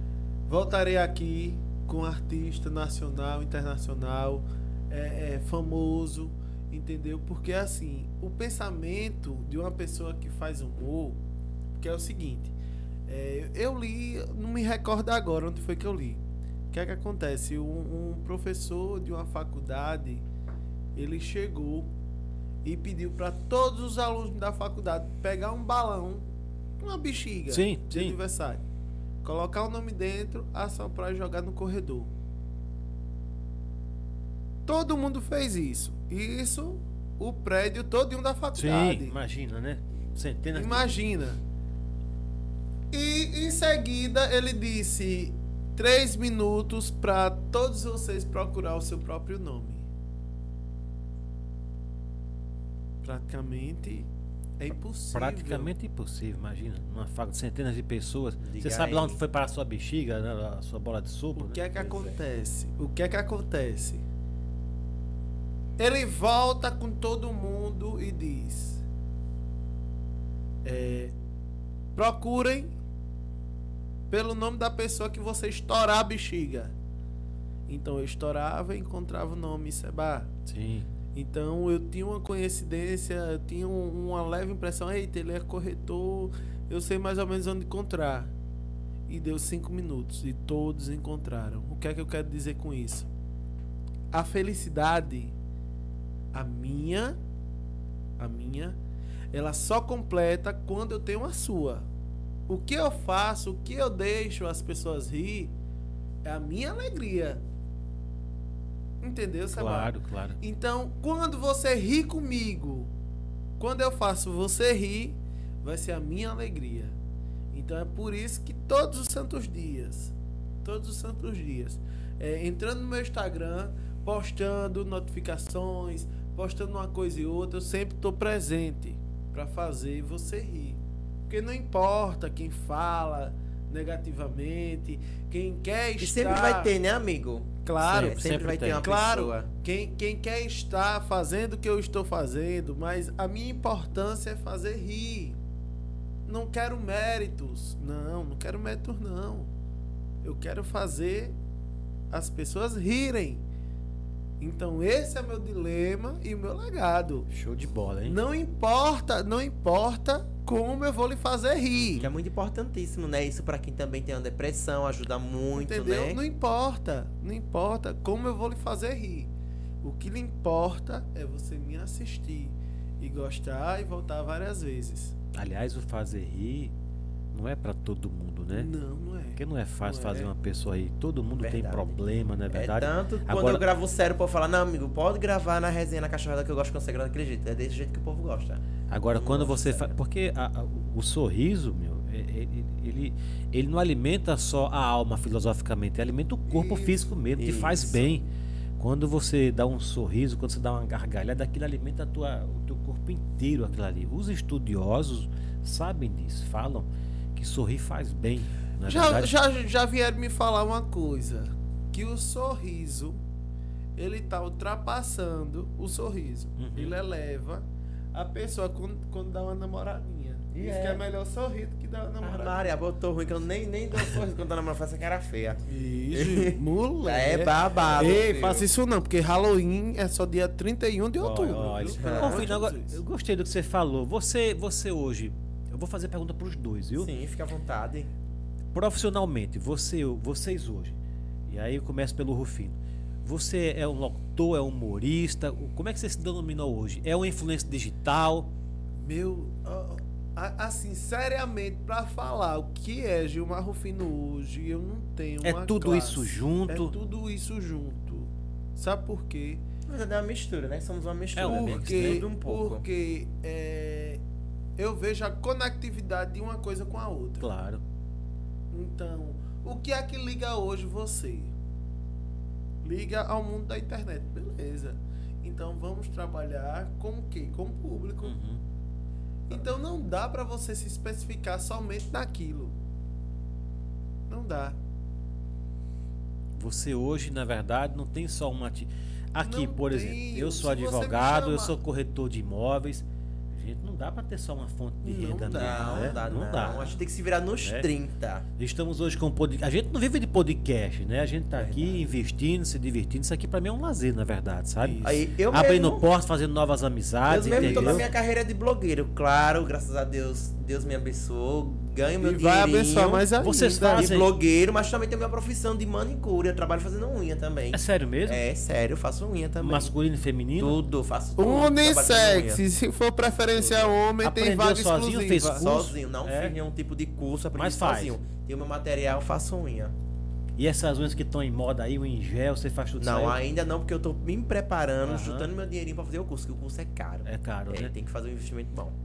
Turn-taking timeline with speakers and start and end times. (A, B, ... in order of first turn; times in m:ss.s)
0:00.5-0:11.2 A
0:11.8-0:12.5 A
0:13.1-0:20.2 A
0:21.0-0:21.9 A
0:22.6-0:26.2 A
0:26.8-0:28.6 A
0:27.5-0:28.2 B
0:29.2-0:32.1 A
0:34.6-0:39.2 A
0:38.6-0:40.9 B
0:40.5-0:41.4 A
0:42.9-0:49.9 A
0:53.0-0:55.7 A
0:55.1-1:02.0 B
0:58.4-0:59.2 C
1:01.3-1:04.0 A
1:05.8-1:08.8 A
1:10.6-1:11.2 A
1:11.9-1:12.7 A
1:14.1-1:16.7 A
1:17.7-1:20.3 A
1:20.5-1:20.9 B
1:21.1-1:28.3 A
1:29.1-1:33.1 A
1:34.1-1:35.4 A
1:36.3-1:37.2 A
1:38.2-1:38.8 A
1:39.3-1:41.9 A
1:42.5-1:45.6 A
1:46.2-1:47.4 A
1:49.0-1:52.9 A
1:49.5-1:50.4 B
1:53.6-1:57.0 A
1:57.5-2:16.7 A
2:16.0-2:19.5 C
2:17.6-2:18.2 A
2:17.8-2:18.8 B
2:18.8-2:25.4 A
2:26.2-2:29.5 A
2:30.2-2:31.4 A
2:32.1-2:33.4 A
2:34.4-2:37.3 A
2:37.3-2:38.2 B
2:38.0-2:42.1 A
2:41.8-2:42.1 B
2:42.0-2:46.2 C
2:45.5-2:55.1 A
2:55.3-2:56.7 B
2:57.3-2:58.7 B
2:58.5-3:00.3 A
2:59.4-3:03.6 B
3:01.4-3:02.0 C
3:02.5-3:08.6 C
3:08.9-3:18.2 B
3:09.1-3:10.0 C
3:16.5-3:17.0 A
3:17.4-3:18.1 C
3:18.8-3:29.3 B
3:28.8-3:33.2 A
3:34.0-3:42.7 A
3:36.6-3:37.0 B
3:40.5-3:41.0 C
3:42.2-3:45.6 C
3:45.7-3:53.0 A
3:46.1-3:48.7 C
3:51.2-3:57.1 B
3:51.9-3:52.5 C
3:57.0-3:58.1 C
3:58.7-4:08.5 B
4:09.0-4:19.6 A
4:15.4-4:16.9 B
4:19.9-4:22.8 C
4:21.4-4:22.2 B
4:21.4-4:24.2 A
4:24.8-4:27.4 A
4:27.4-4:27.8 B
4:28.7-4:31.5 A
4:32.8-4:38.4 A
4:38.2-4:38.6 B
4:39.5-4:42.8 A
4:44.3-4:44.8 A
4:46.5-4:57.0 B
4:49.4-4:51.8 A
4:55.0-4:56.2 A
4:55.5-4:58.4 C
4:58.6-5:08.1 B
5:01.6-5:02.0 C
5:04.8-5:05.2 A
5:05.0-5:06.0 C
5:07.3-5:13.2 C
5:07.5-5:08.1 A
5:12.2-5:14.1 A
5:13.4-5:14.3 B
5:13.9-5:19.9 C
5:17.7-5:18.4 B
5:19.6-5:20.8 B
5:20.6-5:22.6 C
5:21.4-5:25.7 A
5:23.6-5:24.0 C
5:24.2-5:26.6 B
5:25.5-5:29.9 C
5:27.5-5:28.2 B
5:30.6-5:33.4 B
5:33.0-5:38.9 C
5:35.0-5:35.5 B
5:37.2-5:37.9 B